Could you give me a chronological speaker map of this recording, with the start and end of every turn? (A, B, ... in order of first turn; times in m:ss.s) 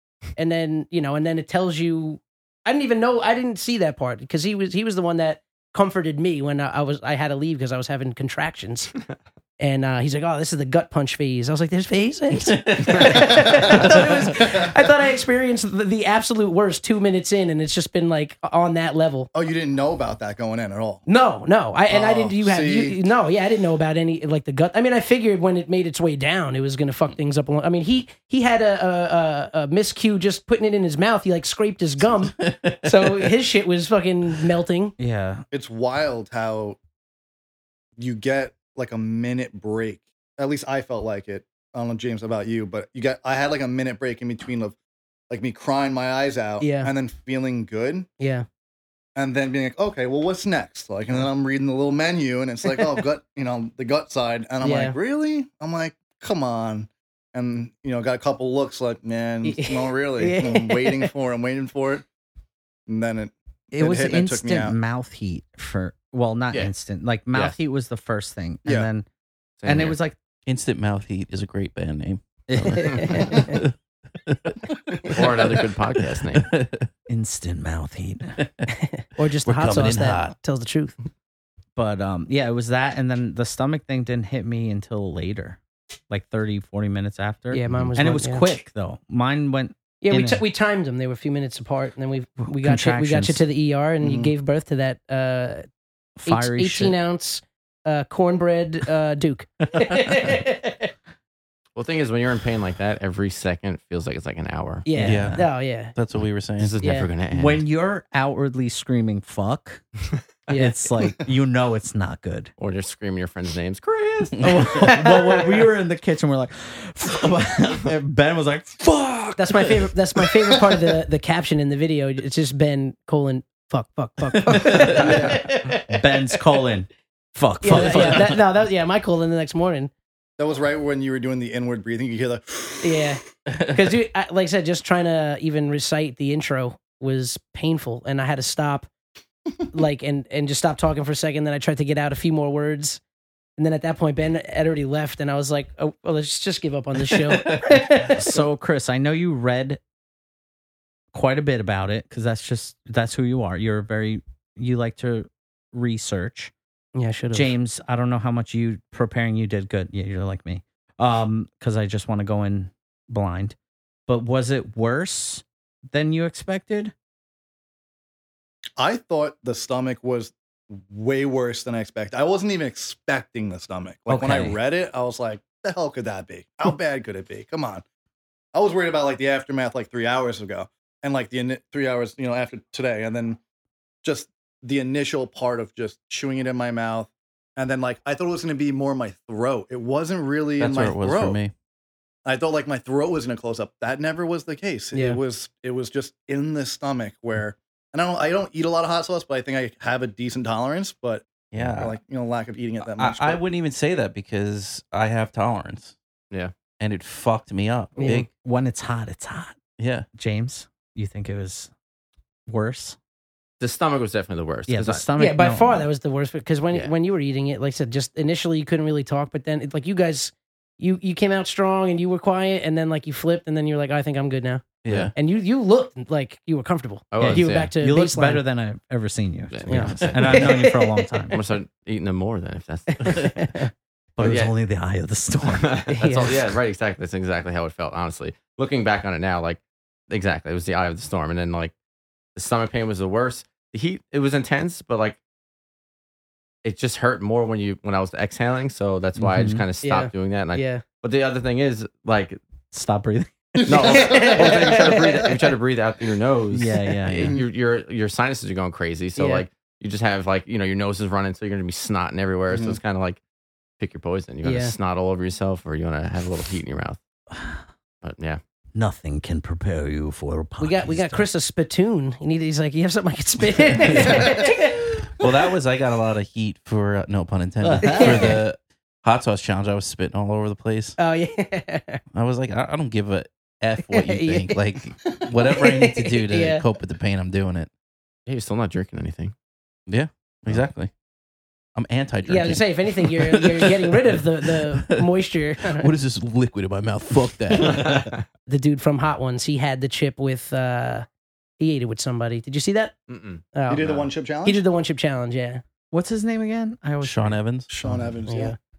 0:00.4-0:09.0 A
0:09.6-0:19.3 A
0:12.4-0:13.0 B
0:13.7-0:14.4 B
0:19.3-0:21.0 C
0:21.1-0:34.9 A
0:21.9-0:23.0 C
0:32.2-0:33.3 B
0:35.0-0:35.4 D
0:35.5-0:36.8 C
0:38.0-0:44.8 C
0:45.3-0:48.1 C
0:46.6-0:46.9 A
0:48.2-0:48.4 A
0:49.2-1:02.0 C
0:54.6-0:55.0 A
0:59.4-1:01.1 A
1:02.9-1:04.8 C
1:03.7-1:09.0 D
1:09.6-1:10.0 E
1:09.6-1:10.2 D
1:10.4-1:13.7 B
1:12.5-1:13.3 D
1:12.8-1:13.6 A
1:14.2-1:16.9 B
1:15.1-1:16.5 E
1:17.1-1:18.4 D
1:18.4-1:18.7 B
1:18.7-1:20.9 A
1:19.4-1:20.3 B
1:19.6-1:20.1 D
1:21.8-1:25.6 D
1:26.1-1:30.4 D
1:27.5-1:28.5 A
1:30.0-1:35.6 A
1:32.4-1:33.4 D
1:34.0-1:34.3 C
1:36.2-1:36.9 D
1:36.2-1:40.9 A
1:41.8-1:44.9 E
1:44.8-1:45.9 A
1:44.9-1:45.4 D
1:45.0-1:46.9 B
1:46.6-1:47.6 E
1:46.8-1:47.1 A
1:47.3-1:49.8 D
1:50.5-1:50.8 A
1:50.5-1:52.5 D
1:52.6-1:54.6 E
1:54.4-1:54.7 B
1:54.4-1:59.3 D
1:54.7-1:55.5 A
1:59.4-2:06.4 A
2:04.5-2:05.3 B
2:05.9-2:08.3 D
2:07.6-2:09.9 A
2:10.4-2:13.2 C
2:12.8-2:18.9 A
2:13.4-2:13.8 B
2:19.7-2:23.0 A
2:23.6-2:28.4 A
2:27.0-2:27.8 B
2:28.2-2:29.8 D
2:31.1-2:36.5 D
2:36.9-2:37.5 A
2:37.3-2:43.5 D
2:44.1-2:46.9 D
2:48.8-2:57.8 C
2:54.1-2:54.6 D
2:58.5-3:03.4 C
3:04.0-3:11.4 C
3:10.6-3:11.5 B
3:12.2-3:23.4 C
3:14.9-3:15.2 A
3:21.5-3:22.0 B
3:22.8-3:26.0 B
3:26.8-3:28.3 B
3:28.0-3:28.3 A
3:28.3-3:29.5 D
3:29.8-3:30.0 B
3:30.1-3:31.7 D
3:32.5-3:33.0 D
3:33.6-3:35.0 E
3:34.7-3:35.9 D
3:35.2-3:48.4 A
3:44.8-3:45.1 B
3:47.1-3:47.7 E
3:47.2-3:51.3 D
3:49.5-3:50.4 E
3:49.7-3:51.4 A
3:50.0-3:50.5 B
3:51.3-3:53.3 E
3:53.0-3:53.7 A
3:54.2-3:55.8 D
3:54.2-3:54.5 E
3:55.5-4:01.7 E
3:56.0-3:56.4 A
4:02.4-4:05.2 E
4:06.6-4:12.4 E
4:09.2-4:09.6 D
4:09.8-4:10.8 A
4:12.7-4:13.5 D
4:13.6-4:15.3 C
4:13.7-4:23.2 E
4:13.9-4:15.1 A
4:16.5-4:17.3 D
4:17.1-4:17.4 C
4:19.2-4:19.4 A
4:22.5-4:22.8 C
4:23.8-4:27.0 E
4:24.4-4:24.7 A
4:27.3-4:27.6 D
4:28.0-4:28.4 E
4:28.7-4:31.2 D
4:30.6-4:35.3 A
4:33.8-4:41.0 B
4:37.6-4:38.4 D
4:37.8-4:38.4 A
4:41.0-4:42.0 A
4:42.1-4:47.7 B
4:43.9-4:44.6 A
4:45.4-4:46.6 A
4:48.2-4:49.3 E
4:49.9-4:50.9 B
4:51.8-4:55.1 B
4:52.2-4:55.9 A
4:55.7-4:58.2 B
4:58.5-5:01.1 A
5:01.6-5:02.9 A
5:03.1-5:04.1 E
5:03.5-5:03.8 A
5:03.7-5:04.6 C
5:04.4-5:05.6 A
5:05.9-5:08.1 D
5:07.0-5:07.7 B
5:07.7-5:08.6 C
5:08.3-5:08.6 A